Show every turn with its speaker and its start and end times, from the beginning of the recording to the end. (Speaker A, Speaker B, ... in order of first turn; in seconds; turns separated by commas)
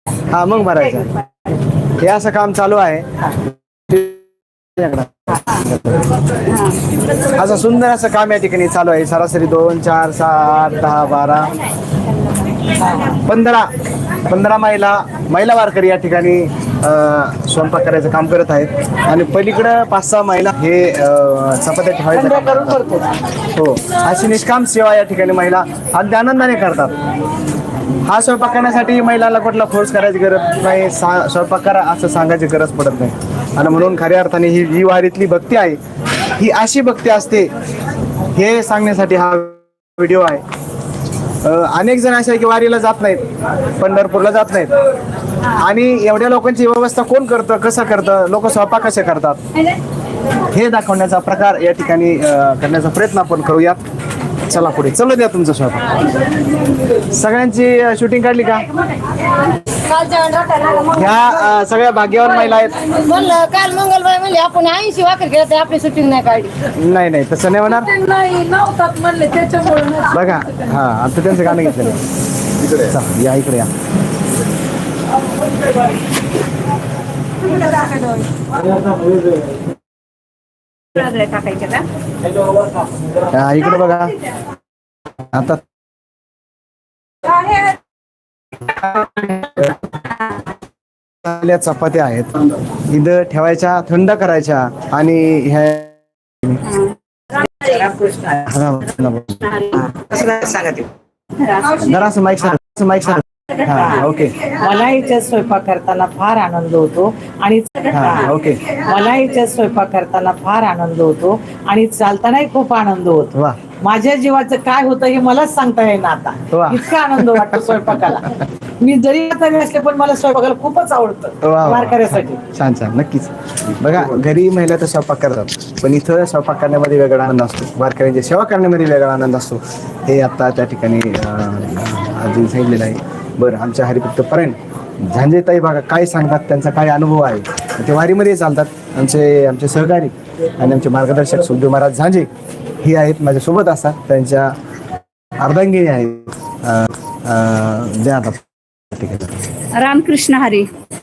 Speaker A: 0.3-1.1, Speaker A: 2.0-3.1, Speaker A: 3.9-4.2, Speaker A: 4.8-6.1, Speaker B: 6.5-6.8, Speaker A: 7.3-11.5, Speaker C: 12.8-13.2, Speaker A: 13.2-13.7, Speaker A: 14.2-22.9, Speaker C: 22.1-23.1, Speaker A: 23.5-27.0, Speaker A: 28.0-35.8, Speaker A: 36.3-37.5, Speaker A: 38.3-40.4, Speaker A: 41.4-43.2, Speaker A: 43.8-44.7, Speaker A: 45.6-49.4, Speaker A: 50.5-53.8, Speaker A: 54.5-56.0, Speaker A: 57.1-58.7, Speaker D: 59.8-60.9, Speaker A: 60.9-63.0, Speaker D: 63.0-66.6, Speaker A: 66.7-67.9, Speaker E: 67.7-70.4, Speaker A: 70.1-72.0, Speaker A: 72.7-73.7, Speaker B: 80.9-81.9, Speaker A: 83.3-84.2, Speaker A: 85.3-85.6, Speaker B: 87.4-87.7, Speaker A: 89.2-89.7, Speaker A: 91.2-96.6, Speaker B: 96.7-97.7, Speaker C: 97.7-98.2, Speaker A: 98.3-99.6, Speaker C: 99.9-100.9, Speaker B: 101.4-101.8, Speaker A: 101.8-104.5, Speaker C: 103.8-122.4, Speaker A: 107.9-108.7, Speaker A: 116.5-117.6, Speaker A: 121.4-142.3, Speaker A: 142.8-144.5, Speaker A: 145.4-149.4, Speaker B: 149.8-150.7